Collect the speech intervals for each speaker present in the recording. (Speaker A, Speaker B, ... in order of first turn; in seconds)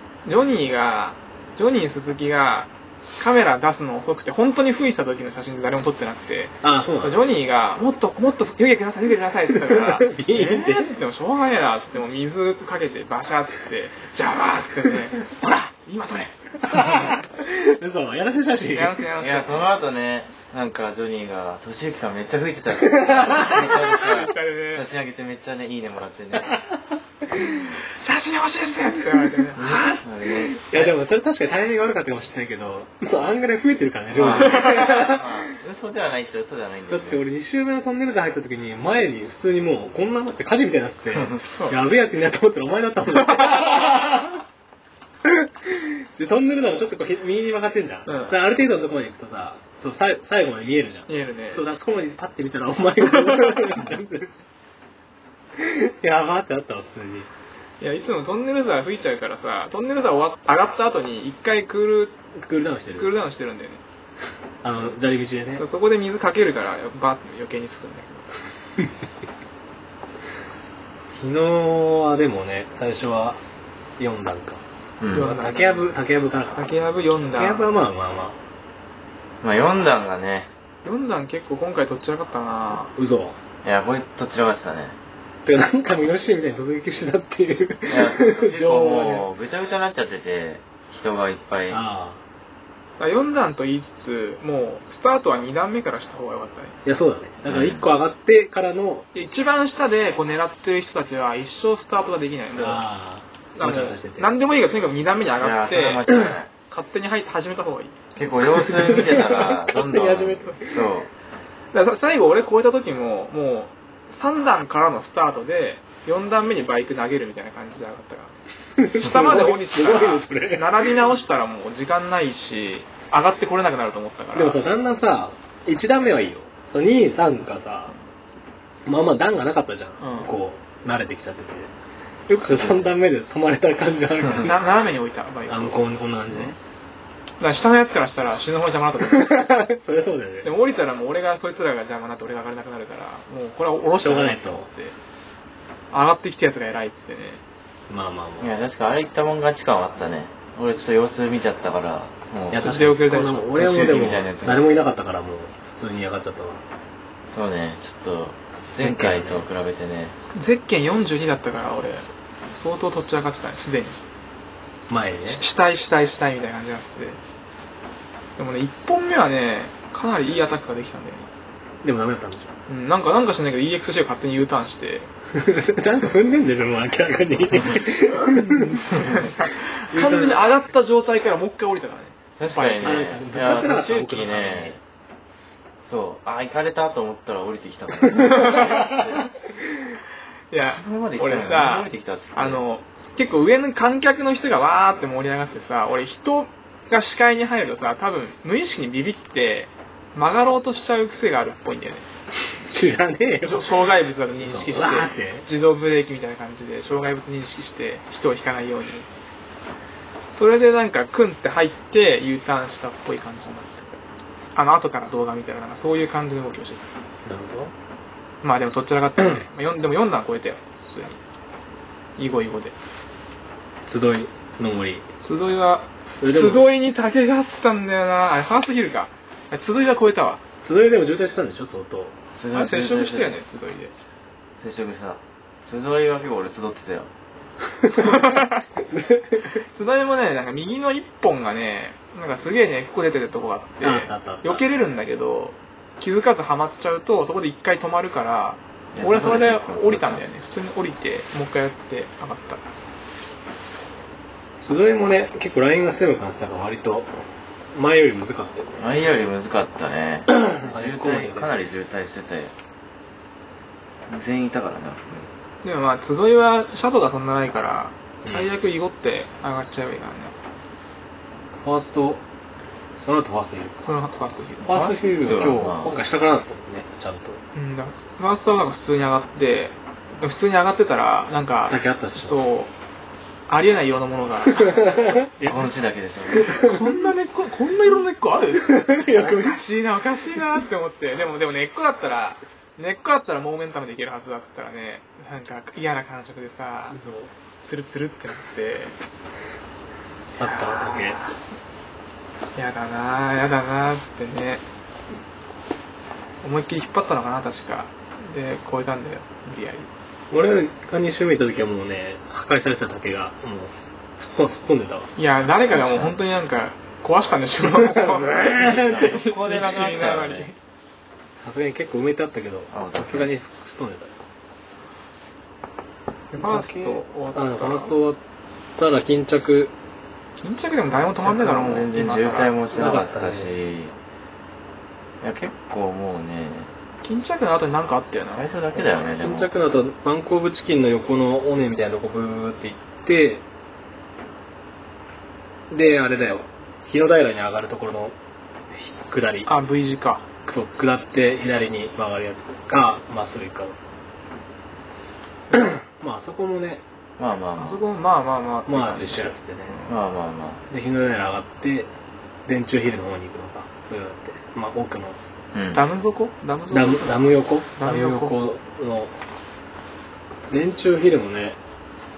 Speaker A: 0.3-17.1, 18.7-19.6, 23.5-24.8, 27.4-30.1, 34.3-35.0, 41.4-41.8, 48.1-48.4, 51.1-51.6, 53.2-53.8, 57.8-62.2, 63.0-63.8, 65.6-68.3, 75.1-76.0, 76.6-77.7, 80.8-82.9, 93.0-96.8, 99.2-102.9, 103.5-108.0, 111.7-118.3, 118.9-124.6, 130.0-130.3, 134.4-135.8, 137.4-139.5, 140.4-144.9, 145.9-147.4, 152.6-153.7, 160.3-164.0, 165.3-167.2, 168.4-171.3, 172.7-175.1, 178.2-183.1, 188.2-188.8, 190.5-202.1, 203.4-209.1, 210.3-214.0, 214.6-216.8, 218.4-221.2, 222.2-222.8, 225.2-230.4, 232.5-233.9, 238.0-238.6, 239.7-252.6, 265.6-270.3, 273.9-274.9, 277.5-282.7, 283.5-285.2, 286.4-297.0, 297.6-298.9, 300.4-301.4, 302.6-304.6, 306.4-309.9, 315.2-320.6, 326.3-328.0, 330.4-332.6, 337.0-338.5, 349.5-350.2, 357.6-359.9, 365.7-368.4
Speaker B: 6.6-7.2, 9.6-11.0, 16.6-19.0, 22.8-23.8, 27.3-27.6, 30.3-35.2, 36.9-44.4, 45.2-54.3, 55.6-57.3, 62.4-63.1, 64.6-65.7, 71.1-73.4, 74.0-74.6, 75.1-76.7, 77.3-78.4, 82.9-83.4, 85.5-89.2, 91.7-92.2, 96.8-99.1, 102.5-104.3, 108.6-110.8, 118.8-121.1, 124.3-128.0, 128.8-131.7, 132.3-134.7, 135.5-136.6, 139.0-140.5, 144.0-144.7, 147.9-148.5, 152.5-156.6, 158.8-159.5, 164.9-165.4, 171.8-172.5, 175.3-180.4, 182.8-184.8, 188.2-189.0, 202.6-203.8, 204.4-205.5, 217.2-217.7, 219.2-219.4, 223.9-225.1, 226.2-226.7, 230.6-232.2, 237.8-239.6, 243.8-244.6, 254.6-258.9, 260.3-261.6, 271.6-272.2, 273.1-273.9, 274.6-277.4, 281.7-282.4, 284.6-285.7, 286.3-286.8, 288.6-289.6, 296.9-297.3, 300.4-301.2, 310.3-315.1, 317.6-319.1, 321.4-324.2, 326.4-328.2, 328.8-329.7, 332.7-333.5, 339.2-343.4, 345.7-348.2, 348.7-349.5, 350.4-353.8, 355.5-356.8, 358.7-359.9, 360.7-361.9, 362.5-365.2, 366.7-369.2, 370.5-371.6
Speaker C: 19.2-26.5, 29.6-30.9, 34.1-37.2, 75.0-75.3, 79.4-80.5, 83.6-85.0, 87.9-91.8, 97.5-97.8, 105.4-106.5, 108.2-111.1, 132.5-132.9, 148.4-152.7, 153.6-154.7, 157.3-160.2, 182.4-184.8, 185.9-189.3, 190.7-192.6, 232.3-233.4, 234.6-237.1, 248.9-250.2, 258.8-262.5, 264.1-265.3, 274.7-275.9, 285.4-286.5, 315.7-316.1, 318.6-320.5, 322.7-323.3, 331.2-333.9, 335.2-336.7, 338.3-339.5, 357.2-357.8, 359.9-360.6, 365.5-365.9